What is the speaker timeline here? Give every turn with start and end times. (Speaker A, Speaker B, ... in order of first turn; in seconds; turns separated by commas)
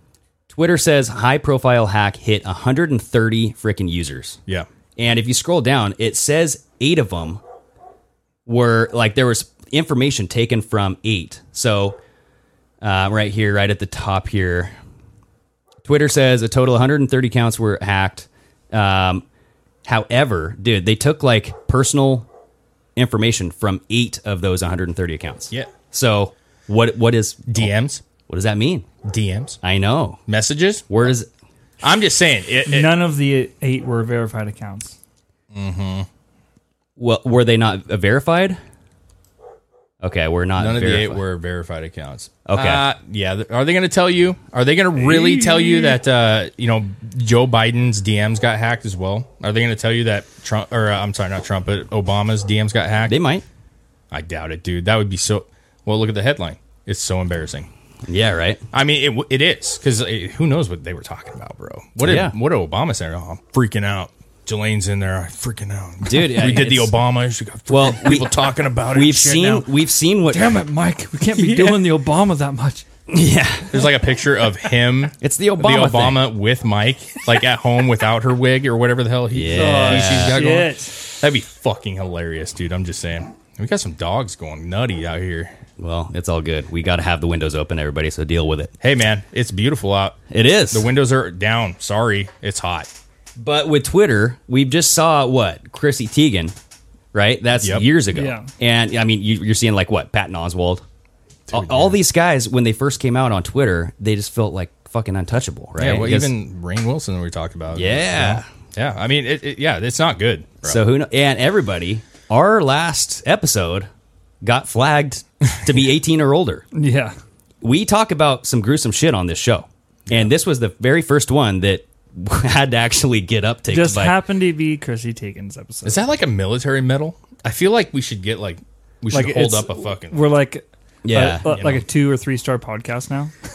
Speaker A: 0.5-4.4, Speaker A: 5.0-7.4, Speaker A: 8.5-12.0, Speaker A: 12.8-14.7, Speaker A: 15.8-19.2, Speaker A: 19.9-22.3, Speaker A: 23.0-27.7, Speaker B: 27.5-28.0, Speaker A: 28.3-28.9, Speaker B: 29.1-29.6, Speaker A: 29.6-30.2, Speaker B: 30.3-30.9, Speaker A: 30.9-31.3, Speaker B: 31.8-32.9, Speaker C: 32.7-35.0, Speaker B: 35.5-36.1, Speaker A: 37.0-38.6, Speaker A: 40.0-41.2, Speaker B: 40.6-53.2, Speaker A: 42.5-42.8, Speaker A: 53.1-53.4, Speaker B: 54.1-57.7, Speaker A: 58.1-58.6, Speaker B: 58.7-69.7, Speaker A: 62.0-62.4, Speaker A: 66.0-67.0, Speaker A: 67.7-68.4, Speaker A: 68.9-70.6, Speaker C: 70.3-72.8, Speaker B: 71.4-71.8, Speaker A: 73.1-73.9, Speaker B: 73.7-85.5, Speaker A: 75.2-76.3, Speaker A: 79.3-80.4, Speaker C: 79.5-81.0, Speaker A: 85.8-88.7, Speaker B: 88.8-90.2, Speaker A: 90.3-90.9, Speaker B: 90.7-92.9, Speaker A: 93.4-96.5, Speaker A: 97.1-100.8, Speaker B: 97.6-97.9, Speaker C: 98.1-98.5, Speaker B: 101.5-102.0, Speaker A: 101.5-106.3, Speaker B: 105.8-110.8, Speaker A: 107.7-108.5, Speaker A: 110.6-113.9, Speaker A: 114.4-116.7, Speaker C: 116.8-117.1, Speaker A: 117.6-124.2, Speaker C: 123.7-126.0, Speaker B: 125.8-130.3, Speaker C: 129.1-133.3, Speaker A: 131.0-131.6, Speaker B: 131.5-131.8